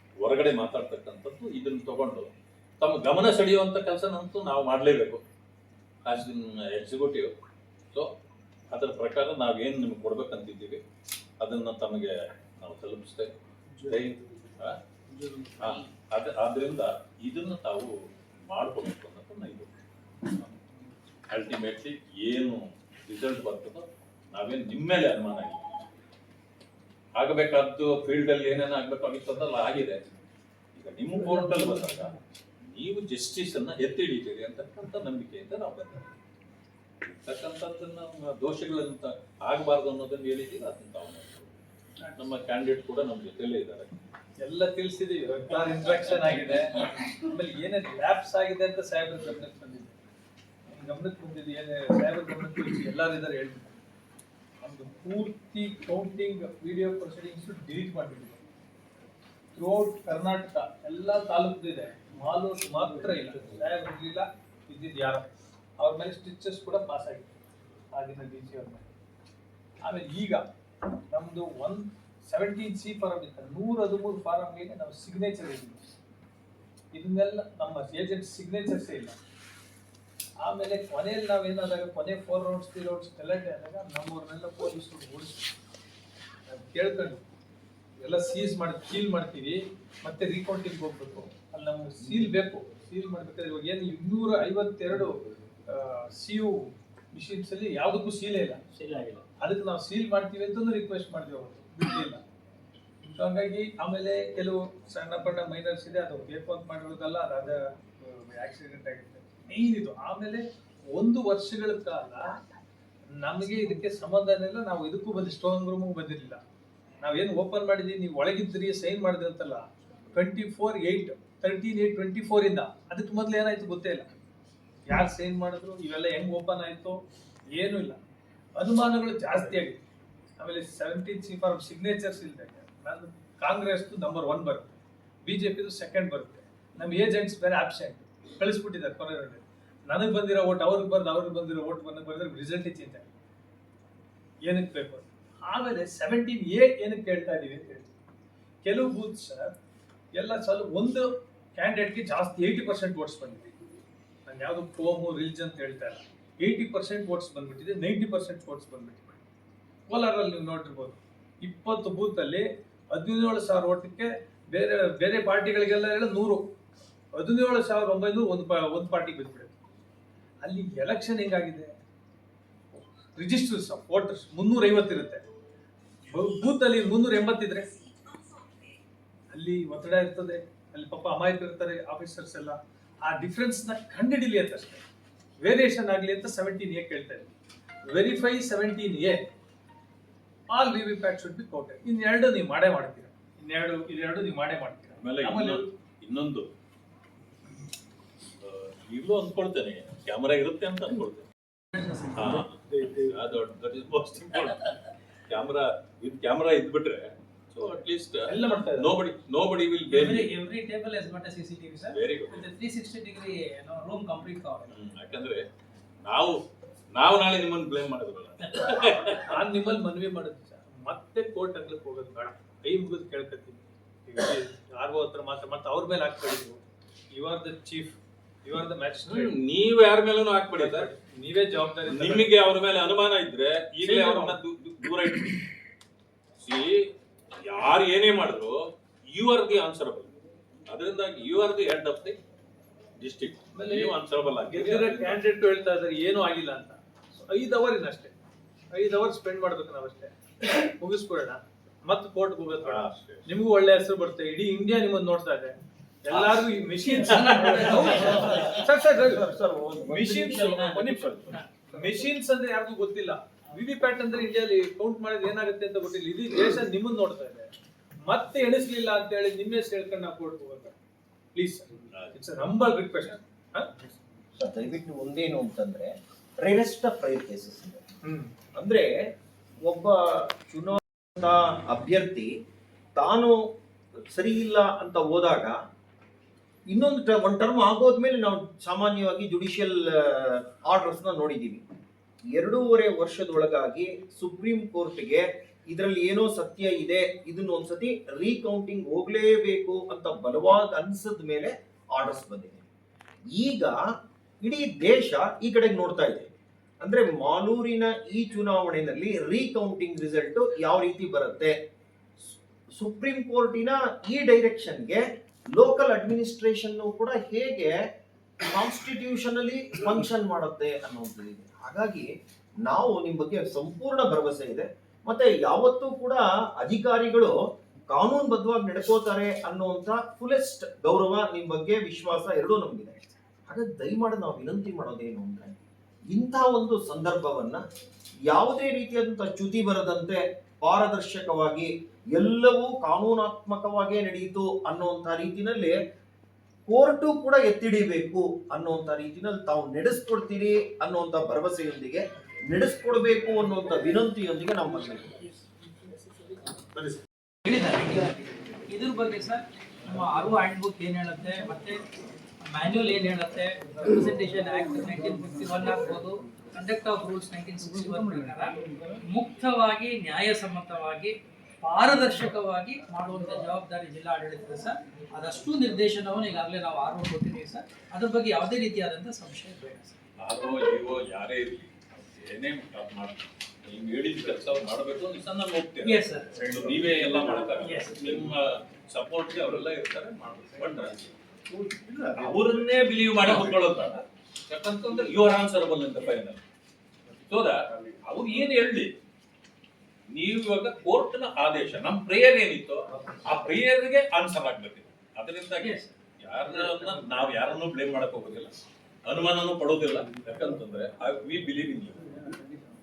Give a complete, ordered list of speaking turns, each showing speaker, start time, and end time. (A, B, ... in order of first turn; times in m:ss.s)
0:00.2-0:05.2 A
0:06.1-0:07.3 A
0:08.7-0:10.8 A
0:11.4-0:14.8 A
0:15.2-0:15.5 B
0:15.6-0:17.9 A
0:18.5-0:19.8 A
0:21.3-0:25.7 A
0:27.2-0:30.0 A
0:30.8-0:36.1 A
0:37.0-0:41.5 A
0:42.2-0:43.9 A
0:44.4-0:50.0 C
0:50.7-0:53.8 C
0:54.6-0:58.4 C
0:59.5-1:07.3 C
1:07.9-1:08.9 C
1:09.8-1:10.4 C
1:11.1-1:15.9 C
1:16.9-1:19.2 C
1:20.4-1:25.5 C
1:26.5-1:27.2 C
1:28.0-1:38.6 C
1:38.8-1:39.2 B
1:39.4-1:42.2 C
1:43.1-1:52.4 C
1:53.2-1:56.4 C
1:57.0-2:04.1 C
2:04.9-2:07.0 C
2:07.5-2:08.0 C
2:08.6-2:09.8 C
2:10.4-2:23.1 C
2:24.4-2:27.9 C
2:28.6-2:29.5 C
2:30.2-2:33.6 C
2:34.3-2:39.2 C
2:39.9-2:46.5 C
2:47.2-2:49.6 C
2:50.4-2:51.7 C
2:52.8-2:55.2 C
2:56.1-2:57.7 C
2:59.3-3:04.8 C
3:05.4-3:07.3 C
3:07.9-3:09.2 C
3:10.5-3:15.7 C
3:15.0-3:16.5 A
3:18.4-3:21.3 A
3:21.7-3:22.3 B
3:22.1-3:30.3 A
3:22.7-3:23.1 C
3:28.3-3:29.0 C
3:29.9-3:34.7 B
3:31.9-3:32.5 A
3:34.7-3:35.4 A
3:36.0-3:36.4 A
3:36.9-3:39.4 A
3:39.2-3:46.6 C
3:47.2-3:49.4 C
3:49.1-3:50.9 A
3:50.6-3:52.3 C
3:51.9-3:55.4 A
3:53.8-3:54.4 C
3:56.4-4:00.1 A
4:00.7-4:02.2 A
4:03.0-4:05.2 A
4:03.5-4:08.2 C
4:08.7-4:19.3 C
4:12.6-4:13.3 A
4:16.8-4:18.6 B
4:18.9-4:21.3 D
4:19.9-4:27.5 C
4:20.5-4:21.6 B
4:28.0-4:30.8 C
4:31.4-4:33.8 C
4:31.9-4:32.2 A
4:34.4-4:37.8 D
4:38.0-4:38.3 C
4:38.6-4:38.9 D
4:39.6-4:42.3 D
4:43.0-4:45.6 D
4:46.7-4:51.6 D
4:52.3-5:02.7 D
5:03.3-5:03.8 D
5:04.4-5:06.3 D
5:06.8-5:11.6 D
5:12.8-5:17.8 D
5:18.4-5:22.1 D
5:22.6-5:27.4 D
5:27.9-5:35.6 D
5:36.1-5:37.6 D
5:38.3-5:45.8 D
5:46.7-5:55.4 D
5:57.4-6:01.8 B
6:02.4-6:20.0 B
6:20.2-6:31.1 A
6:25.8-6:26.3 B
6:27.5-6:28.1 B
6:31.6-6:32.3 D
6:32.2-6:36.4 A
6:37.3-6:38.9 A
6:40.1-6:48.5 A
6:45.6-6:45.9 B
6:49.1-6:52.1 A